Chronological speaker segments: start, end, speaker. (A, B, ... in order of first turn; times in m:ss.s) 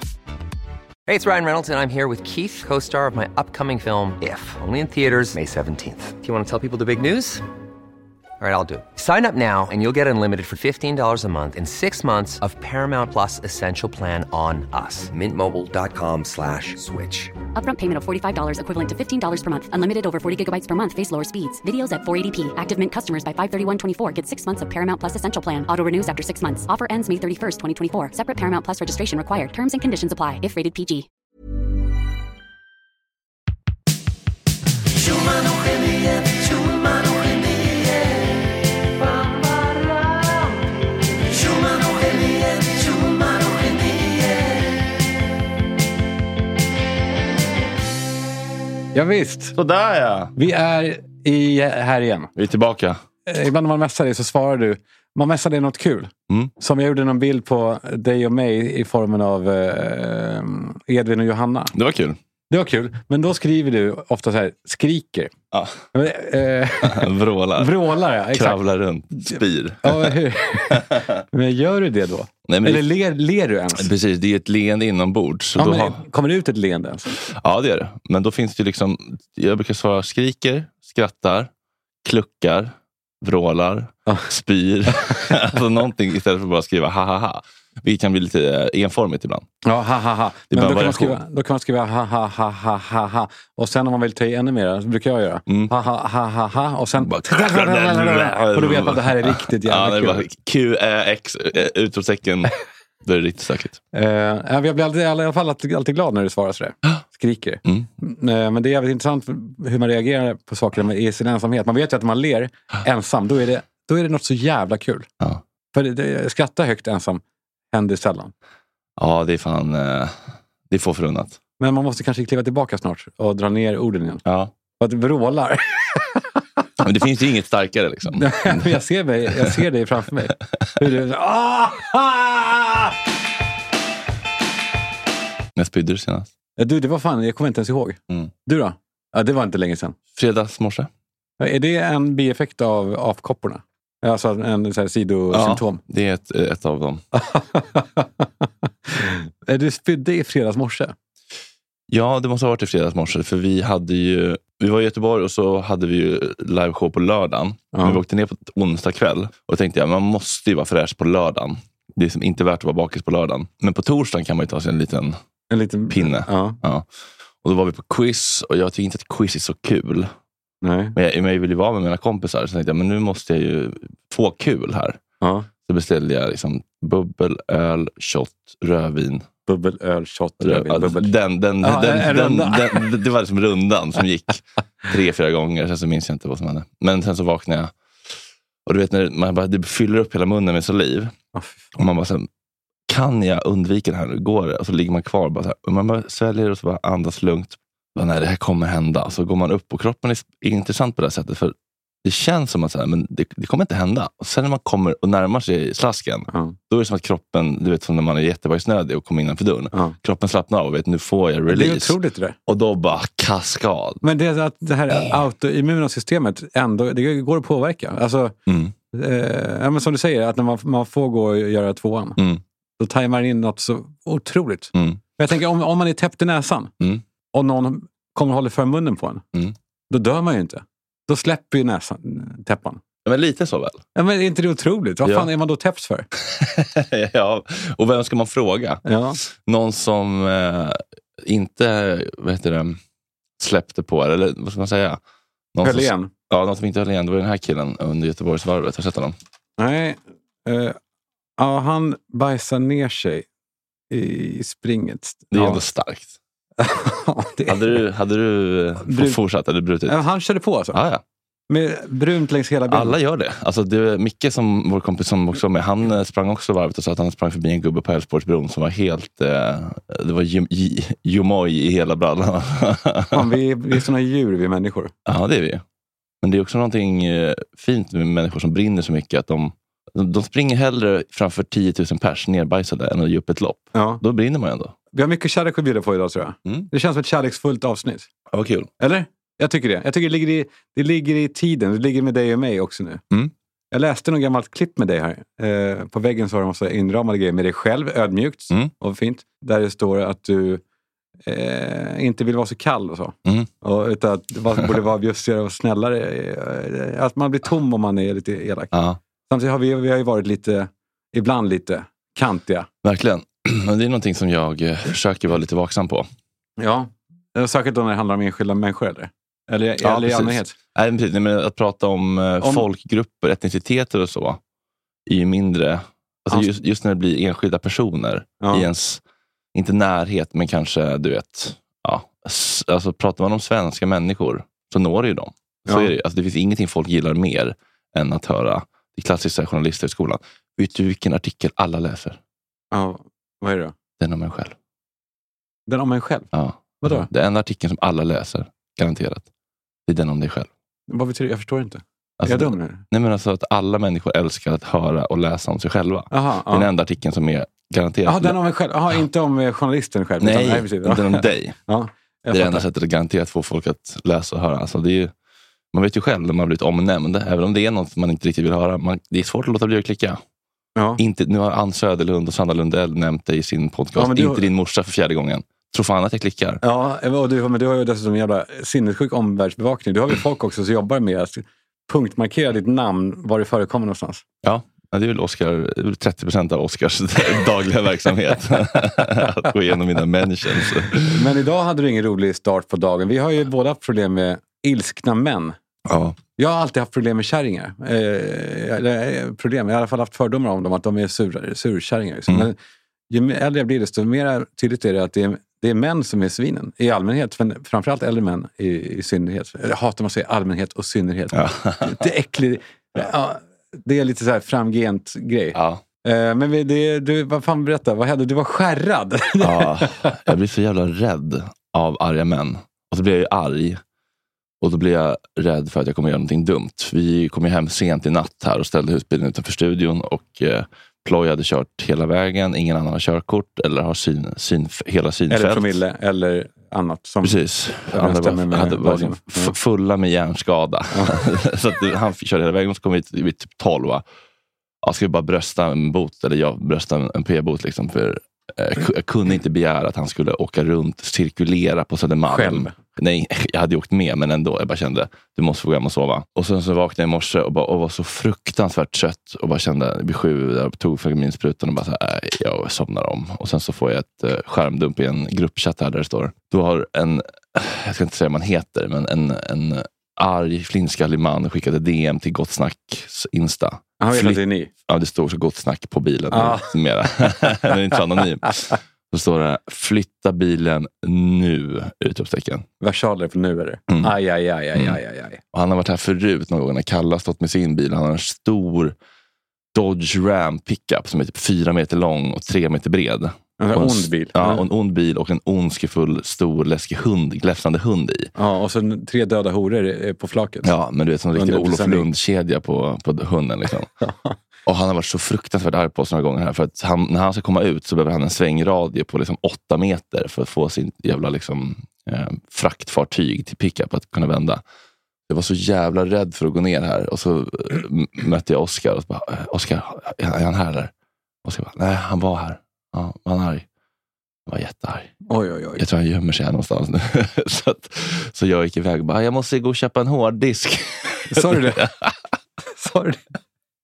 0:01.0-0:07.4 A
0:08.4-0:17.3 A
0:17.6-0:31.1 B
0:35.1-0:38.0 C
0:41.3-0:44.2 C
0:48.9-0:49.6 D
0:49.6-0:50.3 E
0:50.4-0:52.3 D
0:52.4-0:53.0 E
0:53.2-1:01.7 D
1:01.7-1:02.2 E
1:02.5-1:05.3 D
1:05.5-1:05.8 E
1:05.9-1:08.6 D
1:06.8-1:07.8 E
1:08.3-1:11.2 E
1:09.2-1:13.9 D
1:12.5-1:12.9 E
1:13.7-1:16.0 E
1:15.6-1:17.2 D
1:17.2-1:21.5 E
1:22.0-1:29.5 E
1:29.6-1:40.3 D
1:30.5-1:31.2 E
1:35.5-1:35.7 E
1:37.0-1:42.5 E
1:43.0-1:43.8 E
1:43.9-1:55.1 D
1:55.7-1:58.3 D
1:59.0-2:01.4 E
2:01.6-2:04.2 D
2:04.2-2:04.5 E
2:04.8-2:06.3 D
2:06.8-2:08.8 E
2:08.2-2:13.0 D
2:15.6-2:16.3 E
2:16.6-2:20.0 D
2:20.1-2:20.9 E
2:21.4-2:25.8 D
2:25.3-2:27.0 E
2:27.1-2:30.9 D
2:31.9-2:45.2 E
2:37.7-2:38.0 D
2:45.5-2:46.6 D
2:45.9-2:46.9 E
2:47.4-2:50.1 E
2:50.6-2:51.0 D
2:50.9-2:55.0 E
2:55.2-2:55.5 D
2:55.6-2:59.3 E
2:59.4-3:02.9 D
3:00.4-3:08.1 E
3:08.6-3:11.1 E
3:11.3-3:11.6 D
3:11.7-3:12.3 E
3:12.9-3:34.0 E
3:26.3-3:26.6 D
3:31.5-3:32.4 D
3:34.0-3:38.4 D
3:38.5-3:38.7 E
3:38.9-3:42.2 D
3:42.2-3:42.4 E
3:42.8-3:46.7 D
3:44.7-3:45.0 E
3:47.3-3:49.2 D
3:49.9-3:52.8 D
3:53.0-3:53.8 E
3:53.9-3:56.1 D
3:55.0-3:55.3 E
3:56.2-4:02.8 E
3:58.8-3:59.2 D
4:03.4-4:05.0 E
4:05.5-4:09.2 E
4:05.6-4:06.1 D
4:09.6-4:10.8 D
4:11.4-4:13.2 D
4:13.9-4:15.6 D
4:15.3-4:16.1 E
4:16.6-4:17.8 D
4:17.4-4:20.0 E
4:18.8-4:19.2 D
4:19.8-4:20.8 D
4:20.7-4:21.0 E
4:21.5-4:23.0 D
4:22.7-4:33.3 E
4:33.1-4:34.9 D
4:35.0-4:35.6 E
4:36.2-4:44.7 E
4:43.7-4:44.0 D
4:44.9-4:48.1 D
4:46.4-4:46.7 E
4:48.3-4:48.7 E
4:48.8-4:53.0 D
4:53.7-5:00.6 D
5:01.2-5:08.7 D
5:03.2-5:03.5 E
5:08.7-5:09.0 E
5:09.3-5:12.7 D
5:12.8-5:16.1 E
5:16.6-5:20.5 D
5:19.8-5:24.4 E
5:22.4-5:22.6 D
5:25.1-5:29.0 E
5:28.4-5:28.7 D
5:29.5-5:42.2 E
5:42.7-5:43.7 D
5:44.0-5:44.6 E
5:45.7-5:46.3 D
5:46.3-5:49.3 E
5:46.8-5:47.1 D
5:49.9-5:50.5 E
5:50.9-5:52.8 D
5:52.2-5:58.4 E
5:56.1-5:56.7 D
5:58.0-6:02.6 D
6:00.2-6:01.6 E
6:02.3-6:05.1 E
6:05.7-6:10.2 E
6:10.8-6:11.0 D
6:11.0-6:16.6 E
6:13.9-6:14.4 D
6:16.6-6:24.2 D
6:24.4-6:31.3 E
6:31.0-6:35.6 D
6:35.9-6:36.2 E
6:36.4-6:42.6 D
6:43.1-7:00.1 D
6:51.3-6:52.1 E
6:55.5-6:55.8 E
6:59.4-7:03.8 E
7:04.6-7:15.8 E
7:15.3-7:19.5 D
7:17.2-7:24.0 E
7:20.9-7:21.2 D
7:24.8-8:02.7 E
7:32.3-7:32.7 D
7:54.0-7:54.7 D
7:56.3-7:56.7 D
8:02.8-8:05.4 D
8:05.5-8:08.9 E
8:09.7-8:18.3 E
8:13.6-8:14.6 D
8:18.4-8:20.7 D
8:20.6-8:23.9 E
8:21.3-8:22.1 D
8:24.0-8:24.4 D
8:24.6-8:34.6 E
8:35.3-8:40.9 E
8:41.4-8:43.6 E
8:44.4-8:45.1 E
8:45.3-8:45.8 D
8:45.8-8:52.2 E
8:51.3-8:51.8 D
8:52.8-8:53.2 D